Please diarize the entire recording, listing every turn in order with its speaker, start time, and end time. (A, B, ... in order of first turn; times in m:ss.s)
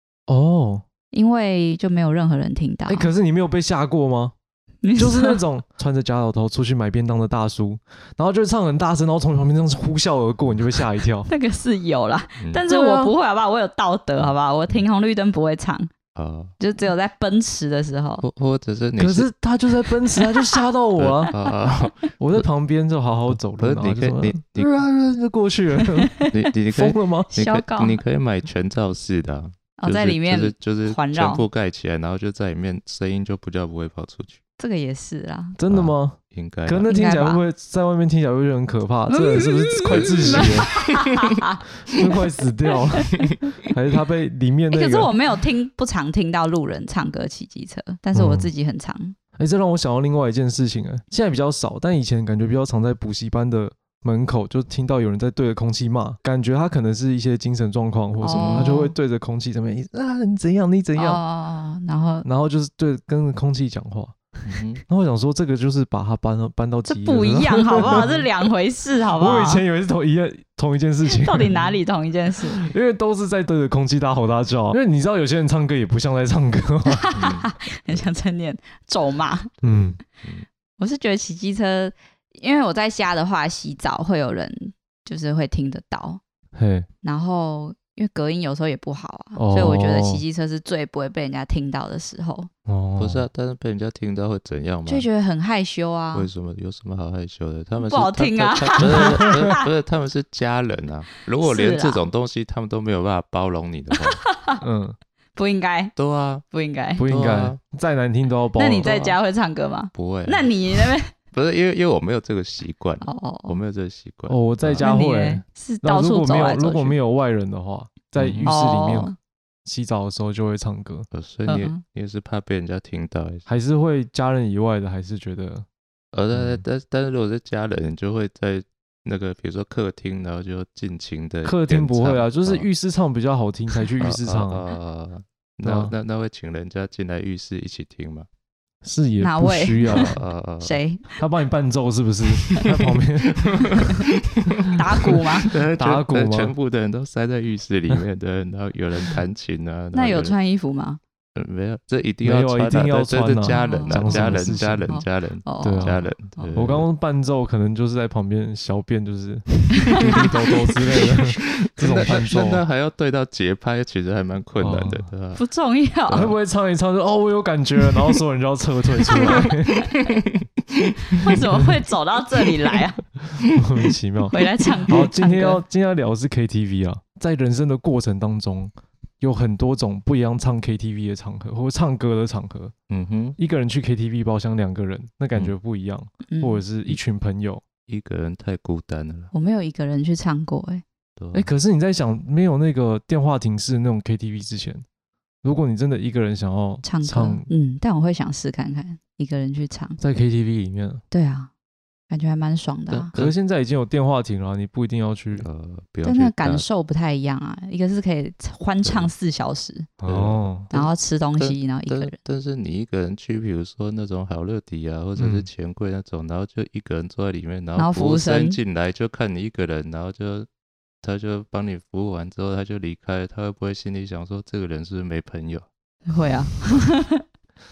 0:00.3-0:00.8 A
0:01.1-0:03.1 B
0:02.9-0:04.4 A
0:04.8-0:05.4 B
0:05.0-0:11.3 A
0:11.3-0:15.9 B
0:12.4-0:12.6 C
0:12.6-0:13.1 A
0:16.2-0:16.5 C
0:16.6-0:18.2 B
0:18.2-0:19.3 C
0:19.0-0:21.3 A
0:20.2-0:20.6 B
0:21.0-0:22.4 C
0:22.2-0:27.3 A
0:23.3-0:24.8 C
0:25.8-0:26.3 B
0:26.2-0:34.4 C
0:27.3-0:28.0 B
0:29.8-0:31.4 B
0:34.6-0:35.6 B
0:35.6-0:40.9 A
0:35.7-0:37.0 C
0:36.9-0:37.4 B
0:39.1-0:42.2 B
0:39.9-0:40.8 C
0:41.9-0:45.1 A
0:44.7-0:49.2 B
0:48.1-0:48.5 A
0:49.4-1:01.2 A
0:58.2-0:58.9 B
0:58.3-0:58.8 C
1:01.0-1:02.3 B
1:02.2-1:04.2 A
1:04.5-1:04.8 C
1:04.9-1:08.3 A
1:06.9-1:09.6 B
1:07.8-1:08.1 C
1:09.2-1:11.5 A
1:11.1-1:12.7 B
1:11.4-1:11.8 C
1:12.6-1:17.1 A
1:16.9-1:19.5 B
1:17.2-1:18.1 C
1:19.6-1:20.0 A
1:19.6-1:20.5 C
1:20.8-1:26.2 B
1:26.6-1:26.9 A
1:27.0-1:32.5 B
1:29.4-1:30.2 A
1:32.7-1:33.3 A
1:33.0-1:35.1 C
1:34.9-1:36.3 B
1:36.1-1:44.3 C
1:37.8-1:39.7 B
1:38.8-1:39.4 A
1:41.4-1:42.0 B
1:44.2-1:44.6 B
1:44.6-1:45.0 A
1:45.4-1:45.9 B
1:46.0-1:46.4 C
1:46.5-1:47.0 B
1:47.0-1:48.9 A
1:47.0-1:47.6 C
1:48.6-1:51.1 B
1:48.8-1:49.2 C
1:49.9-1:50.5 C
1:51.3-1:54.9 C
1:53.0-1:53.6 B
1:54.3-1:59.1 A
1:54.8-1:57.0 B
1:58.2-1:58.6 C
1:58.5-1:59.2 B
1:59.6-2:01.1 A
2:01.1-2:03.5 C
2:01.5-2:01.8 B
2:03.5-2:05.7 A
2:06.1-2:12.7 C
2:06.3-2:06.6 A
2:11.4-2:14.6 A
2:14.0-2:18.3 C
2:15.6-2:15.9 A
2:18.8-2:20.2 A
2:19.2-2:21.2 B
2:19.8-2:20.8 C
2:21.2-2:23.9 A
2:22.3-2:24.8 C
2:24.8-2:25.5 B
2:25.4-2:30.4 C
2:25.7-2:26.5 A
2:29.9-2:31.0 B
2:31.4-2:36.9 C
2:32.2-2:34.9 A
2:33.5-2:36.6 B
2:35.6-2:42.6 A
2:39.8-2:40.1 B
2:40.0-2:45.4 C
2:44.6-2:45.1 A
2:45.4-2:46.3 B
2:46.1-2:46.3 C
2:46.1-2:49.8 A
2:49.1-2:51.4 C
2:49.2-2:49.8 B
2:51.2-2:53.0 B
2:53.6-2:54.4 A
2:54.3-2:55.6 B
2:54.9-3:02.7 A
3:02.9-3:03.4 C
3:03.4-3:07.6 A
3:06.3-3:06.6 B
3:07.9-3:09.3 C
3:09.3-3:10.8 B
3:11.2-3:11.5 C
3:11.3-3:14.8 A
3:15.4-3:17.5 A
3:16.8-3:20.0 B
3:20.0-3:21.0 A
3:21.1-3:21.5 B
3:22.1-3:23.1 B
3:22.9-3:23.4 C
3:23.1-3:25.5 A
3:25.4-3:26.7 C
3:26.0-3:29.9 B
3:28.8-3:29.1 C
3:30.0-3:30.7 A
3:30.1-3:40.5 C
3:30.7-3:32.2 B
3:35.2-3:35.5 A
3:37.8-3:38.6 B
3:41.0-3:45.7 C
3:46.1-3:47.2 B